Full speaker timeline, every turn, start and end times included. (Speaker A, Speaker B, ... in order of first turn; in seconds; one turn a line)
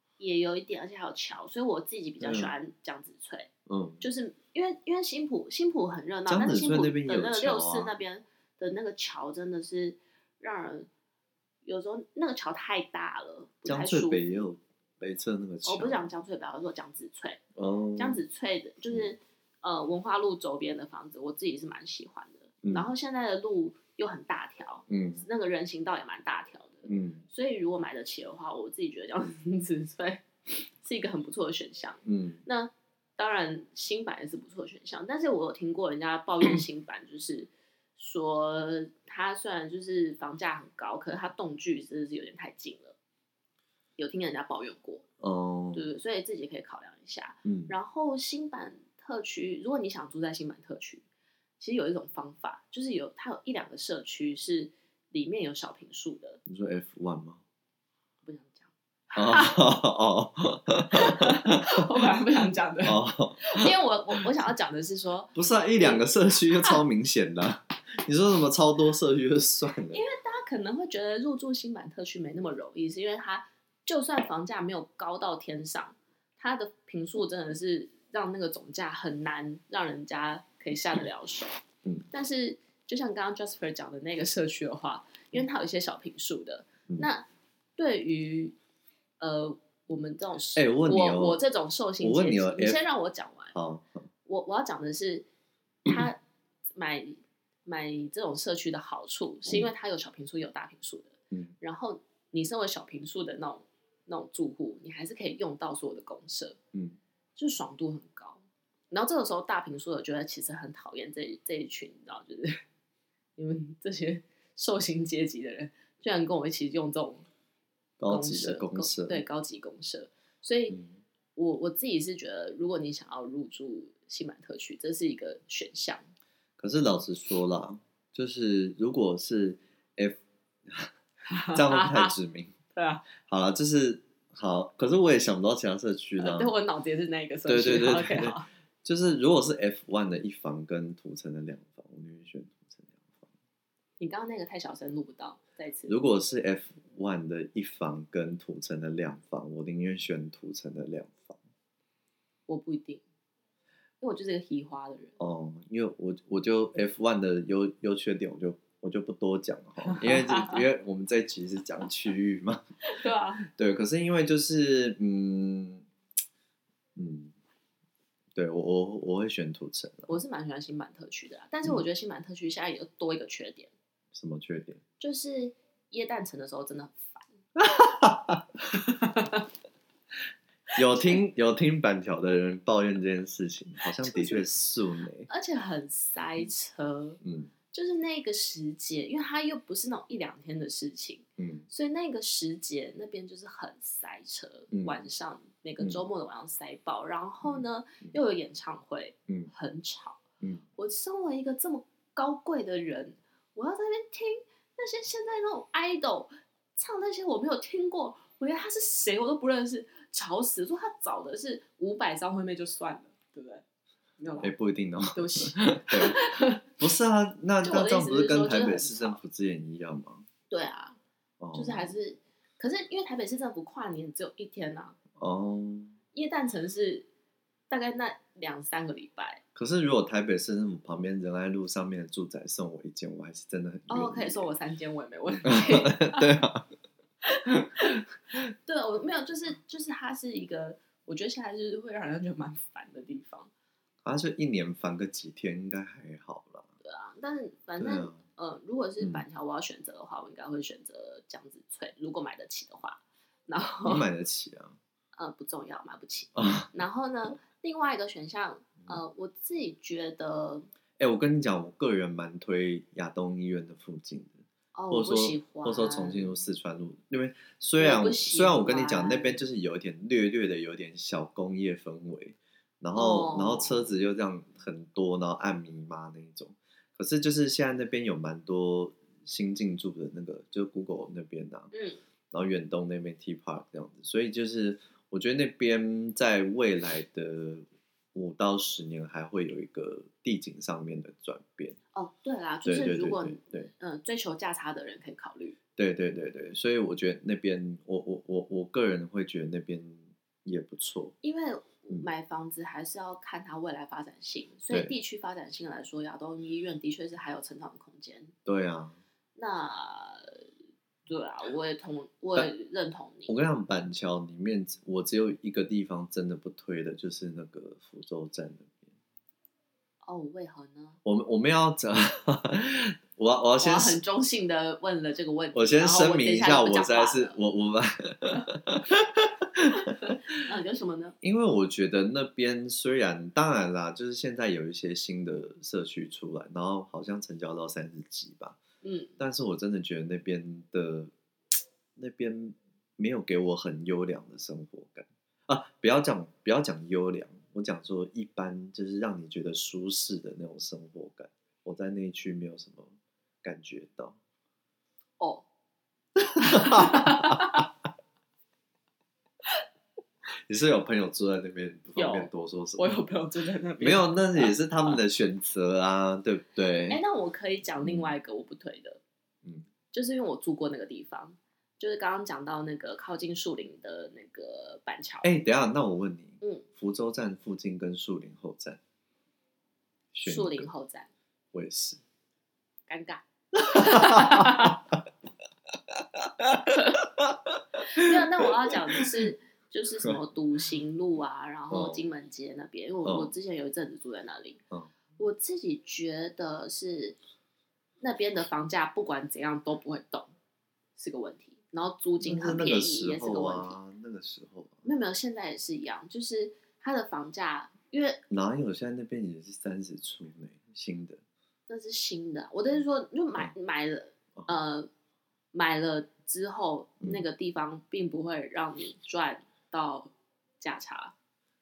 Speaker A: 0.2-3.5
Speaker B: 2.2-2.5
Speaker B: 3.7-4.0
Speaker A: 4.0-10.9
Speaker B: 6.3-7.9
Speaker A: 11.6-14.2
Speaker B: 13.7-16.1
Speaker A: 15.6-17.4
Speaker B: 17.5-18.2
Speaker A: 17.9-42.9
Speaker B: 22.6-22.9
Speaker B: 24.9-25.2
Speaker B: 26.9-27.2
Speaker B: 32.0-32.4
Speaker A: 44.0-45.0
Speaker B: 45.2-45.9
Speaker A: 45.7-51.0
Speaker B: 47.4-47.7
Speaker A: 51.6-56.4
Speaker B: 56.5-57.4
Speaker A: 58.2-59.6
Speaker B: 59.1-62.0
Speaker A: 60.9-66.8
Speaker B: 62.8-63.7
Speaker B: 65.3-70.0
Speaker A: 69.9-81.6
Speaker A: 82.1-87.2
Speaker A: 87.8-88.5
Speaker A: 89.2-93.5
Speaker B: 90.5-91.4
Speaker B: 92.0-92.8
Speaker B: 93.5-94.1
Speaker A: 94.2-95.2
Speaker A: 95.8-96.2
Speaker A: 96.7-106.6
Speaker A: 107.3-112.6
Speaker A: 113.4-117.2
Speaker B: 118.0-119.2
Speaker A: 118.1-120.8
Speaker B: 120.7-121.0
Speaker A: 121.3-126.0
Speaker B: 126.6-130.9
Speaker A: 131.3-132.1
Speaker B: 131.5-132.6
Speaker A: 132.7-133.0
Speaker B: 133.2-136.5
Speaker A: 136.2-138.5
Speaker B: 137.4-143.3
Speaker A: 144.0-145.9
Speaker B: 145.9-151.4
Speaker A: 152.5-153.0
Speaker A: 154.0-155.2
Speaker B: 155.2-162.6
Speaker A: 159.8-160.6
Speaker A: 162.8-163.4
Speaker B: 163.5-165.8
Speaker B: 166.9-167.3
Speaker B: 168.3-170.1
Speaker A: 170.1-173.7
Speaker B: 174.1-174.8
Speaker A: 175.0-177.3
Speaker B: 177.6-178.4
Speaker A: 178.8-179.4
Speaker B: 180.7-185.3
Speaker A: 183.9-184.4
Speaker A: 185.3-187.2
Speaker B: 187.2-187.5
Speaker A: 187.7-200.2
Speaker B: 191.4-191.7
Speaker B: 194.7-195.0
Speaker B: 197.4-198.2
Speaker A: 200.8-213.6
Speaker A: 214.2-214.5
Speaker B: 214.4-216.2
Speaker A: 215.1-216.6
Speaker B: 216.8-220.2
Speaker A: 217.6-219.2
Speaker A: 220.5-221.0
Speaker B: 221.4-221.9
Speaker A: 221.5-224.9
Speaker B: 225.2-225.9
Speaker A: 226.1-227.1
Speaker A: 227.7-229.4
Speaker B: 229.5-234.5
Speaker A: 233.9-236.3
Speaker B: 235.4-236.7
Speaker A: 237.3-243.5
Speaker B: 237.5-238.0
Speaker B: 244.0-246.7
Speaker A: 246.8-254.0
Speaker B: 247.8-248.2
Speaker B: 253.8-254.8
Speaker A: 255.2-260.7
Speaker B: 256.3-256.7
Speaker B: 261.0-281.7
Speaker A: 264.7-266.3
Speaker A: 267.8-269.4
Speaker A: 272.9-273.9
Speaker A: 281.7-282.0
Speaker B: 282.3-291.8
Speaker A: 291.9-295.6
Speaker B: 292.6-293.7
Speaker B: 295.8-301.1
Speaker A: 301.2-308.3
Speaker B: 308.4-309.0
Speaker A: 309.4-310.4
Speaker A: 311.1-313.3
Speaker B: 313.3-318.9
Speaker A: 320.0-321.0
Speaker B: 321.0-324.0
Speaker A: 323.6-327.4
Speaker B: 325.5-330.2
Speaker A: 329.9-331.1
Speaker B: 331.2-338.6
Speaker A: 338.8-339.2
Speaker B: 339.2-341.1
Speaker B: 341.9-354.2
Speaker A: 355.2-355.4
Speaker B: 356.3-357.6
Speaker A: 356.4-357.7
Speaker B: 360.5-363.0
Speaker A: 361.9-365.0
Speaker B: 363.8-367.0
Speaker A: 366.9-369.0
Speaker B: 367.8-368.1
Speaker A: 369.9-375.3
Speaker B: 375.2-378.8
Speaker B: 380.1-380.7
Speaker A: 380.2-381.1
Speaker B: 381.5-382.0
Speaker A: 382.9-384.8
Speaker B: 383.6-385.0
Speaker B: 385.9-389.1
Speaker A: 386.7-387.1
Speaker A: 387.8-394.6
Speaker B: 391.7-392.1
Speaker B: 393.0-393.3
Speaker A: 395.1-397.2
Speaker A: 398.0-400.3
Speaker A: 401.0-403.8
Speaker B: 402.2-404.8
Speaker A: 404.8-408.2
Speaker B: 408.3-411.2
Speaker A: 411.7-414.9
Speaker A: 415.5-421.1